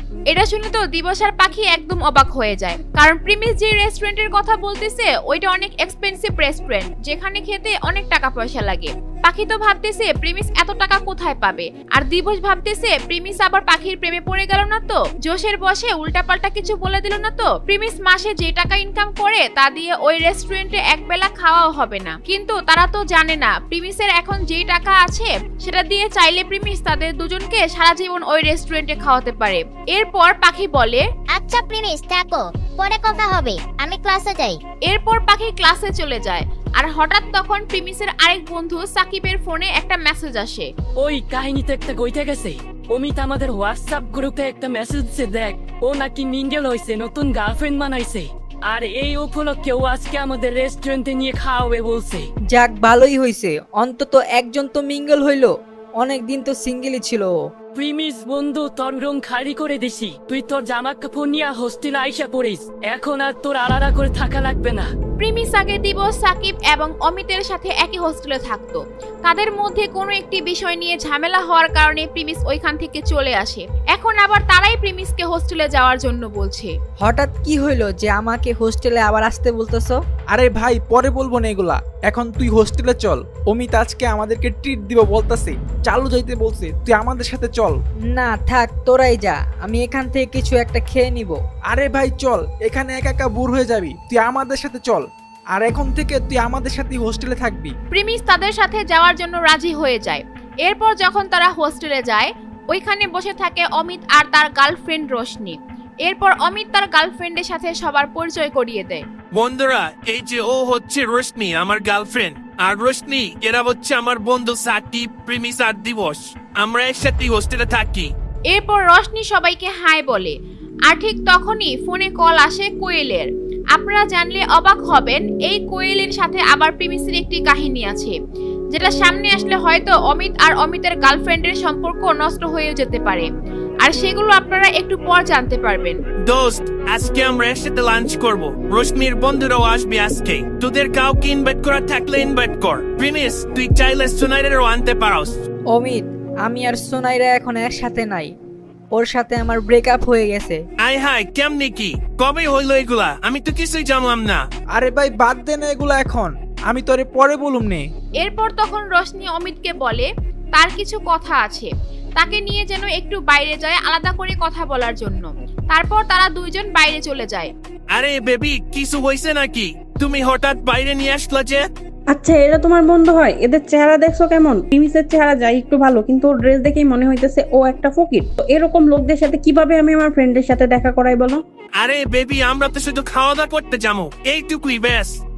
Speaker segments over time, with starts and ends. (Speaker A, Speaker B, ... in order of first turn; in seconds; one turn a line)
Speaker A: 0.3-31.0
Speaker B: 31.3-34.6
Speaker A: 34.9-40.6
Speaker C: 41.0-52.3
Speaker D: 52.5-57.3
Speaker C: 57.7-64.9
Speaker A: 65.2-76.7
Speaker D: 77.0-80.0
Speaker E: 80.3-87.8
Speaker D: 88.1-91.4
Speaker E: 91.7-97.7
Speaker A: 97.9-109.0
Speaker F: 109.3-118.1
Speaker A: 118.5-120.3
Speaker A: 120.9-128.1
Speaker A: 128.7-133.3
Speaker A: 133.8-136.0
Speaker F: 136.2-145.3
Speaker D: 145.7-148.3
Speaker D: 148.9-150.6
Speaker F: 150.8-154.4
Speaker E: 154.7-157.8
Speaker A: 158.2-167.5
Speaker F: 167.9-171.7
Speaker G: 172.1-181.4
Speaker F: 181.8-185.2